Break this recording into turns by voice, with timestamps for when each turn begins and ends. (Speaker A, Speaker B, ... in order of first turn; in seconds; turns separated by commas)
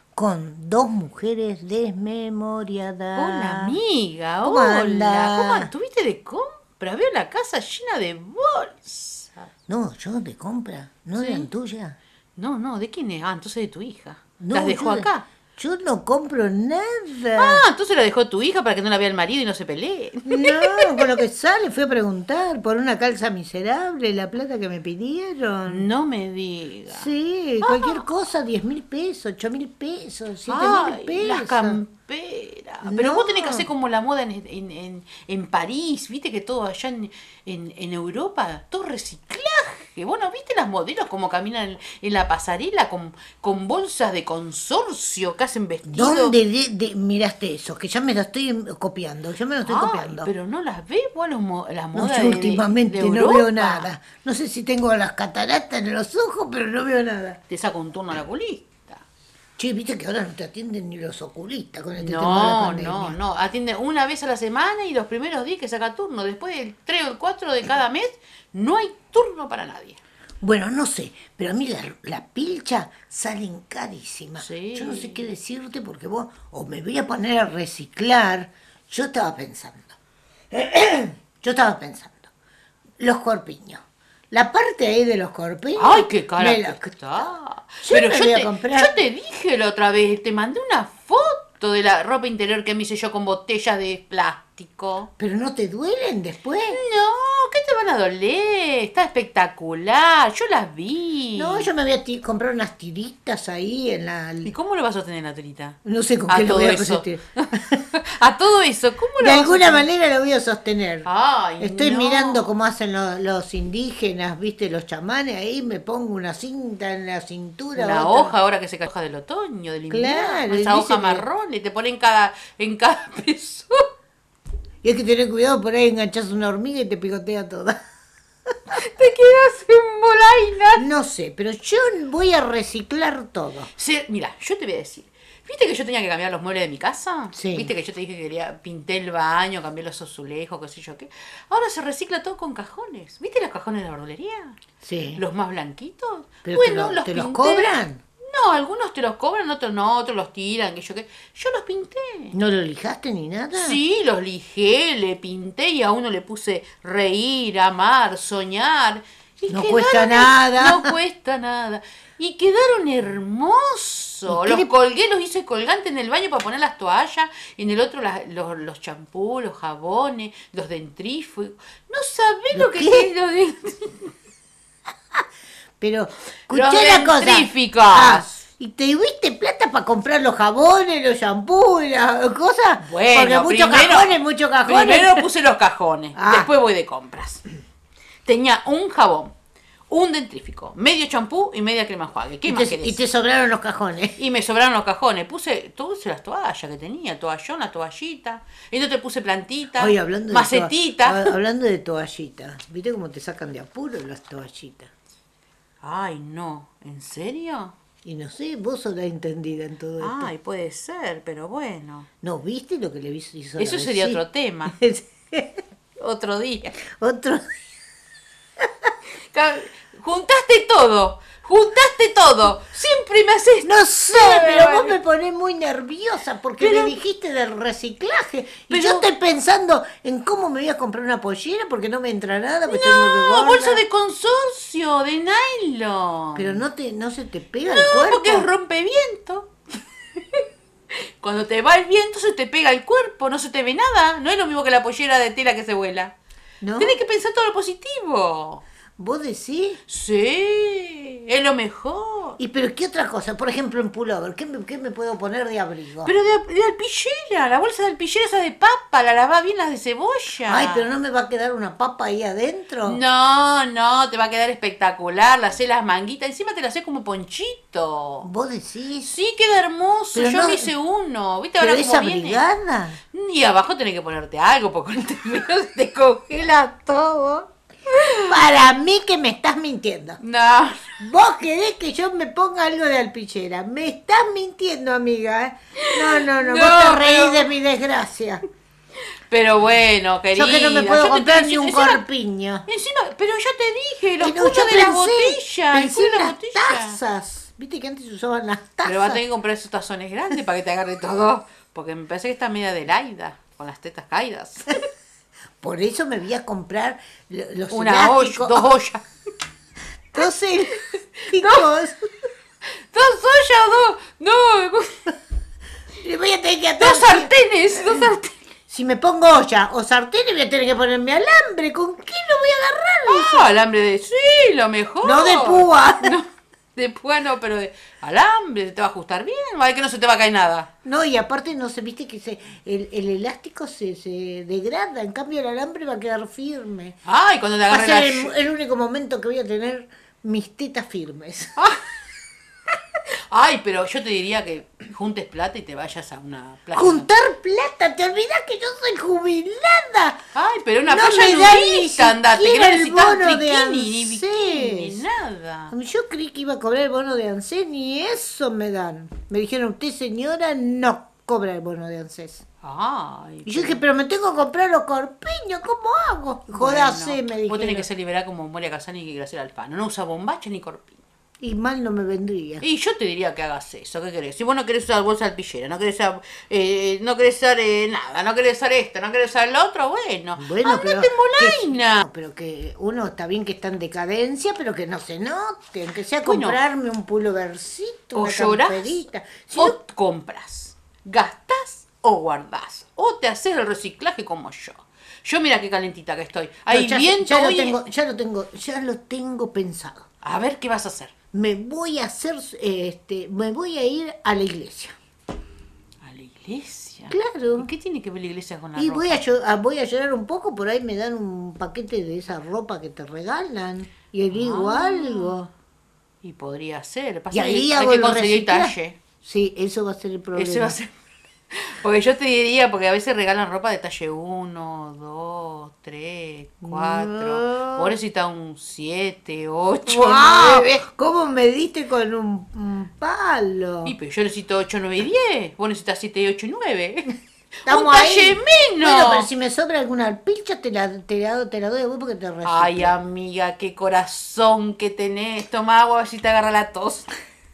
Speaker A: 0.1-3.8, Speaker B: 3.1-9.5, Speaker A: 4.5-5.7, Speaker A: 9.7-12.0, Speaker B: 11.2-11.5, Speaker B: 12.4-15.3, Speaker A: 14.4-17.6, Speaker B: 17.3-21.2, Speaker A: 20.3-25.9, Speaker B: 25.7-27.1, Speaker A: 26.9-31.8, Speaker B: 27.6-28.0, Speaker B: 30.5-46.4, Speaker A: 32.8-33.7, Speaker A: 45.9-50.3, Speaker B: 49.7-53.9, Speaker A: 52.0-57.4, Speaker B: 57.5-59.0, Speaker A: 59.6-63.2, Speaker B: 62.0-70.0, Speaker A: 70.4-80.0, Speaker B: 74.4-75.3, Speaker A: 80.5-82.3, Speaker A: 83.0-89.0, Speaker B: 85.8-95.1, Speaker A: 95.2-96.8, Speaker B: 96.7-101.7, Speaker A: 101.3-104.5, Speaker B: 104.5-109.9, Speaker A: 105.8-107.8, Speaker A: 109.2-111.1, Speaker B: 111.0-112.5, Speaker A: 111.6-118.3, Speaker B: 117.8-123.8, Speaker A: 119.9-121.2, Speaker A: 124.8-127.8, Speaker B: 128.8-130.8, Speaker A: 130.8-133.7, Speaker B: 133.8-144.6, Speaker A: 137.3-137.7, Speaker A: 144.8-145.2, Speaker B: 145.2-152.4, Speaker A: 146.4-148.0, Speaker A: 152.3-153.8, Speaker B: 153.5-174.1, Speaker A: 159.5-160.9, Speaker A: 164.3-164.7, Speaker A: 172.5-173.1, Speaker A: 175.8-185.3, Speaker B: 176.5-178.3, Speaker B: 182.8-187.4, Speaker A: 186.2-186.5, Speaker B: 188.2-189.3, Speaker B: 189.9-193.0, Speaker A: 192.4-194.2, Speaker B: 194.2-201.3, Speaker A: 199.8-204.9, Speaker B: 205.8-207.7, Speaker A: 208.1-210.3, Speaker B: 210.0-212.1, Speaker A: 212.2-215.6, Speaker B: 213.6-214.8, Speaker B: 216.0-216.8, Speaker A: 217.0-217.4, Speaker B: 219.3-225.0, Speaker A: 223.6-233.8, Speaker B: 226.6-227.0, Speaker B: 228.7-229.1, Speaker B: 232.7-236.6, Speaker A: 236.4-238.5, Speaker B: 237.7-239.5, Speaker B: 241.2-246.2, Speaker A: 246.6-247.0, Speaker B: 246.8-248.6, Speaker A: 249.0-249.8, Speaker B: 249.9-252.4, Speaker A: 252.4-256.1, Speaker B: 256.1-260.9, Speaker A: 260.5-263.0, Speaker B: 262.9-268.3, Speaker A: 268.2-269.1, Speaker B: 269.0-272.4, Speaker A: 270.1-270.7, Speaker A: 271.6-273.0, Speaker B: 273.1-278.3, Speaker A: 278.3-280.2, Speaker B: 280.2-280.9, Speaker A: 281.0-288.4, Speaker B: 285.8-287.5, Speaker B: 289.3-292.0, Speaker A: 290.4-292.7, Speaker B: 292.7-297.0, Speaker A: 294.2-299.2, Speaker B: 298.9-304.9, Speaker A: 305.6-308.7, Speaker B: 307.7-309.0, Speaker A: 310.1-312.2, Speaker B: 311.3-311.7, Speaker B: 312.9-315.0, Speaker A: 316.0-317.3, Speaker B: 316.8-318.4, Speaker A: 318.7-323.5, Speaker B: 323.1-330.7, Speaker A: 325.0-326.1, Speaker A: 330.9-337.0, Speaker B: 337.1-338.3, Speaker A: 337.7-341.6, Speaker B: 341.6-341.9, Speaker B: 343.3-347.1, Speaker A: 346.8-350.2, Speaker B: 350.3-355.7, Speaker A: 350.9-355.0, Speaker A: 355.7-362.4, Speaker B: 362.6-363.8, Speaker A: 363.5-367.9, Speaker B: 366.5-371.0, Speaker A: 371.4-372.6, Speaker B: 372.6-382.0, Speaker A: 380.4-389.8, Speaker B: 386.2-386.6, Speaker B: 388.1-389.0, Speaker B: 389.6-397.9, Speaker A: 396.7-400.1, Speaker B: 400.2-401.1, Speaker A: 401.3-404.9, Speaker B: 406.0-409.2, Speaker A: 407.1-407.7, Speaker A: 408.8-415.5, Speaker B: 414.3-415.4, Speaker B: 416.2-419.0, Speaker A: 417.3-420.8, Speaker B: 420.4-420.9, Speaker B: 421.5-430.8, Speaker A: 426.6-427.9, Speaker A: 429.9-433.9, Speaker B: 433.9-437.1, Speaker B: 437.7-439.3, Speaker A: 437.7-442.9, Speaker B: 442.4-447.1